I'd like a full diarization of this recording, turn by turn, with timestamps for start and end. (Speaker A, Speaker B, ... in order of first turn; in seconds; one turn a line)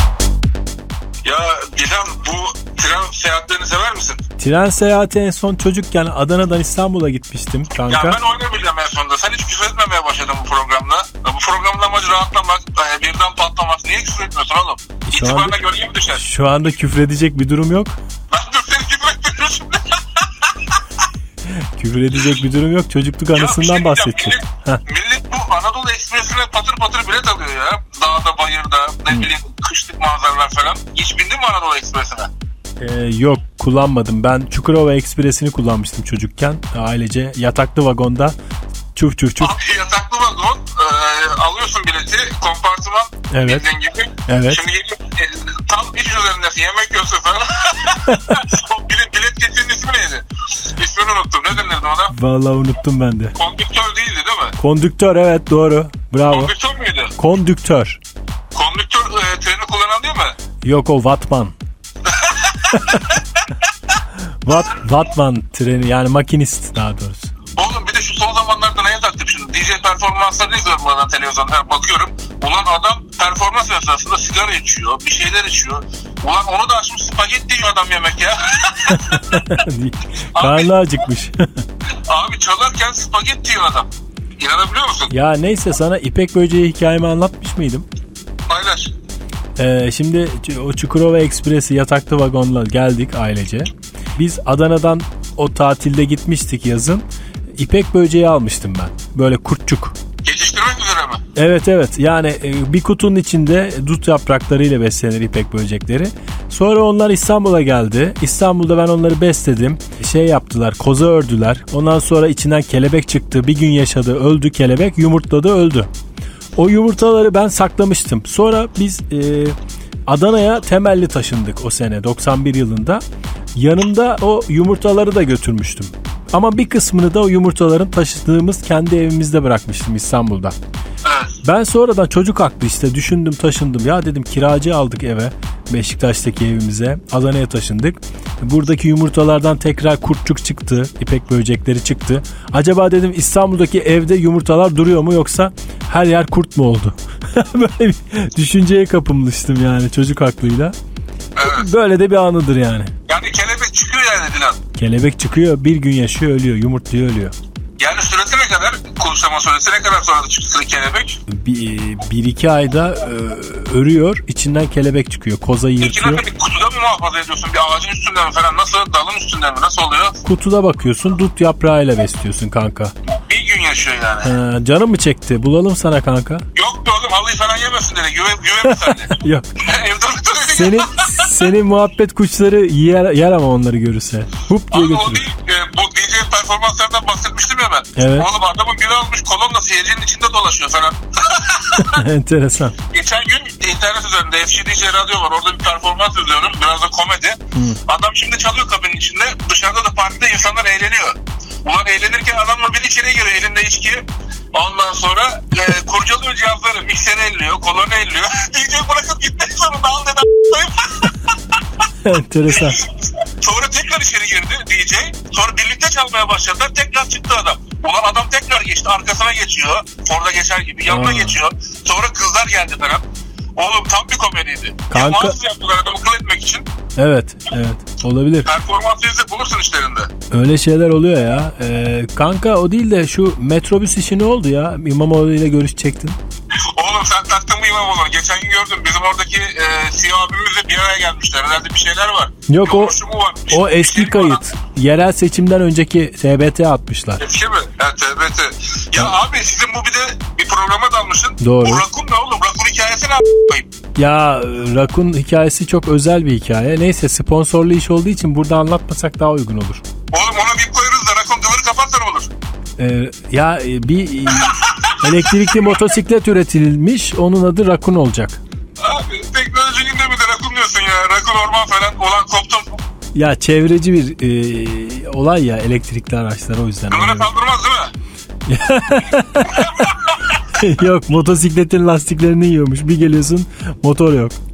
Speaker A: 1.2-4.2
Speaker B: 4.4-8.2
Speaker A: 7.8-16.2
Speaker B: 15.0-15.6
Speaker B: 16.1-18.0
Speaker A: 18.3-20.8
Speaker B: 21.5-24.8
Speaker A: 23.3-32.3
Speaker B: 32.8-38.4
Speaker B: 38.9-39.5
Speaker A: 39.4-52.1
Speaker B: 43.3-43.6
Speaker B: 44.3-44.6
Speaker B: 48.1-48.4
Speaker B: 52.1-53.3
Speaker A: 53.4-54.5
Speaker B: 54.6-56.5
Speaker A: 56.3-57.1
Speaker B: 57.2-58.0
Speaker A: 58.5-60.3
Speaker B: 60.6-61.5
Speaker A: 62.1-63.2
Speaker B: 64.4-67.3
Speaker A: 67.6-79.5
Speaker B: 78.9-81.5
Speaker A: 80.3-80.7
Speaker A: 82.1-83.9
Speaker A: 84.4-85.1
Speaker B: 85.1-87.8
Speaker A: 88.5-88.9
Speaker B: 89.6-100.0
Speaker A: 100.2-101.2
Speaker B: 101.3-115.9
Speaker B: 116.6-123.0
Speaker B: 123.5-130.6
Speaker A: 131.0-131.3
Speaker B: 131.4-150.7
Speaker A: 151.3-151.7
Speaker B: 151.4-152.9
Speaker A: 153.1-154.6
Speaker B: 154.8-157.3
Speaker A: 157.8-161.2
Speaker B: 161.3-166.2
Speaker A: 165.8-170.2
Speaker B: 170.2-172.9
Speaker A: 173.1-174.3
Speaker B: 174.2-176.4
Speaker A: 176.5-181.3
Speaker B: 178.6-179.6
Speaker B: 180.5-185.2
Speaker A: 184.7-192.0
Speaker B: 187.9-188.3
Speaker B: 191.8-192.7
Speaker A: 192.9-211.3
Speaker B: 197.5-197.8
Speaker B: 212.0-212.8
Speaker A: 212.5-223.0
Speaker B: 220.9-221.4
Speaker A: 223.6-226.7
Speaker B: 224.9-225.4
Speaker B: 226.9-228.5
Speaker A: 228.4-230.1
Speaker B: 230.3-236.2
Speaker A: 236.7-244.4
Speaker B: 242.5-242.9
Speaker B: 243.5-247.2
Speaker A: 247.2-253.7
Speaker B: 251.4-251.8
Speaker B: 253.9-259.8
Speaker A: 260.1-262.3
Speaker B: 262.8-268.4
Speaker A: 264.3-265.8
Speaker A: 268.8-272.8
Speaker B: 273.1-277.3
Speaker A: 276.9-277.9
Speaker B: 278.4-279.9
Speaker A: 279.5-280.4
Speaker B: 280.5-284.4